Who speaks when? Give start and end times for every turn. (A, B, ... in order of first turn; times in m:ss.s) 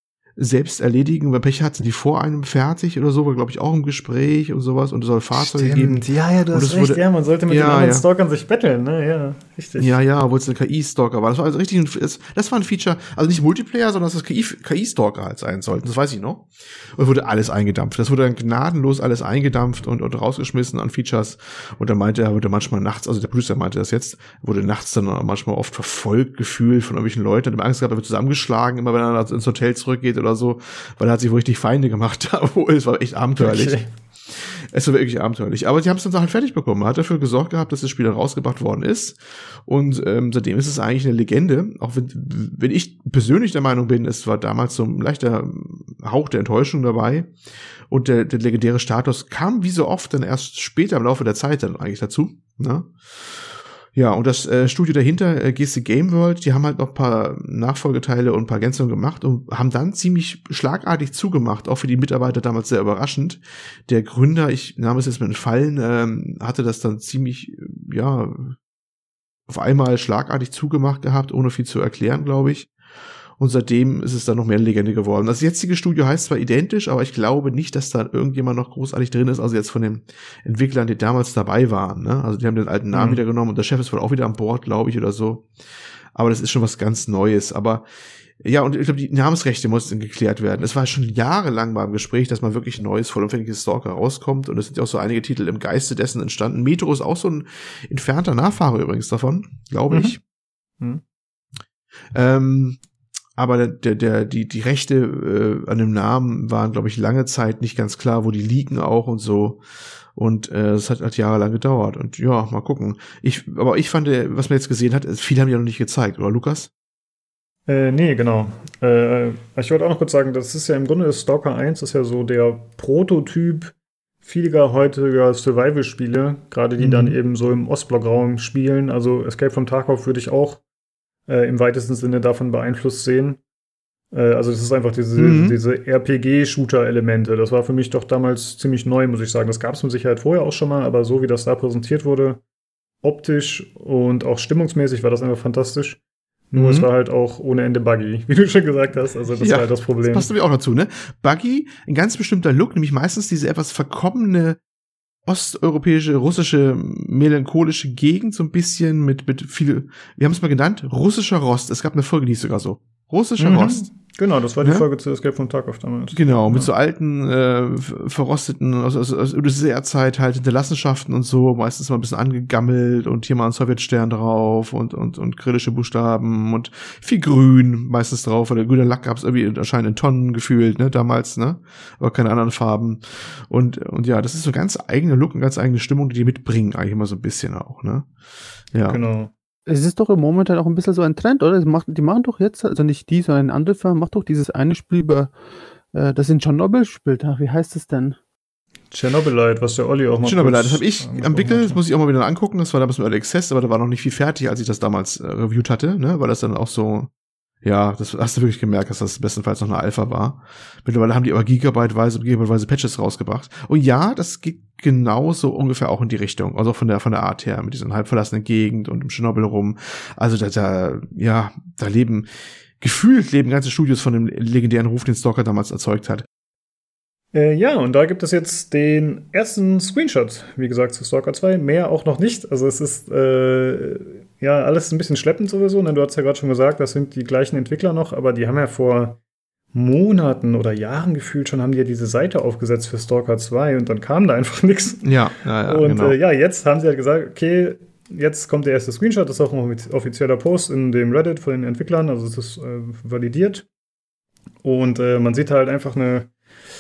0:00.4-0:08.0 A
0:05.3-0:10.0 B
0:09.8-0:47.3 A
0:33.4-0:33.9 B
0:47.9-1:08.6 A
1:09.5-1:12.7 A
1:13.4-1:25.5 A
1:22.9-1:23.2 B
1:26.2-1:27.8 A
1:28.4-1:40.2 A
1:39.9-1:40.2 B
1:42.1-1:42.8 A
1:43.4-1:49.6 A
1:50.2-1:56.7 A
1:57.7-2:10.6 B
2:06.8-2:07.2 A
2:11.3-2:13.4 B
2:14.1-2:22.4 B
2:15.2-2:15.6 A
2:23.0-2:26.0 B
2:26.5-2:30.3 B
2:26.5-2:26.9 A
2:29.3-2:34.6 A
2:35.3-2:43.9 A
2:43.4-2:46.7 B
2:46.1-3:08.1 A
3:08.7-3:09.0 A
3:08.9-3:09.3 B
3:09.7-3:15.3 C
3:15.9-3:18.2 C
3:18.9-3:21.8 B
3:20.2-3:27.1 A
3:27.6-3:46.3 A
3:47.3-3:59.2 B
3:59.7-4:05.1 B
4:05.0-4:06.2 A
4:05.7-4:13.7 B
4:14.6-4:16.3 B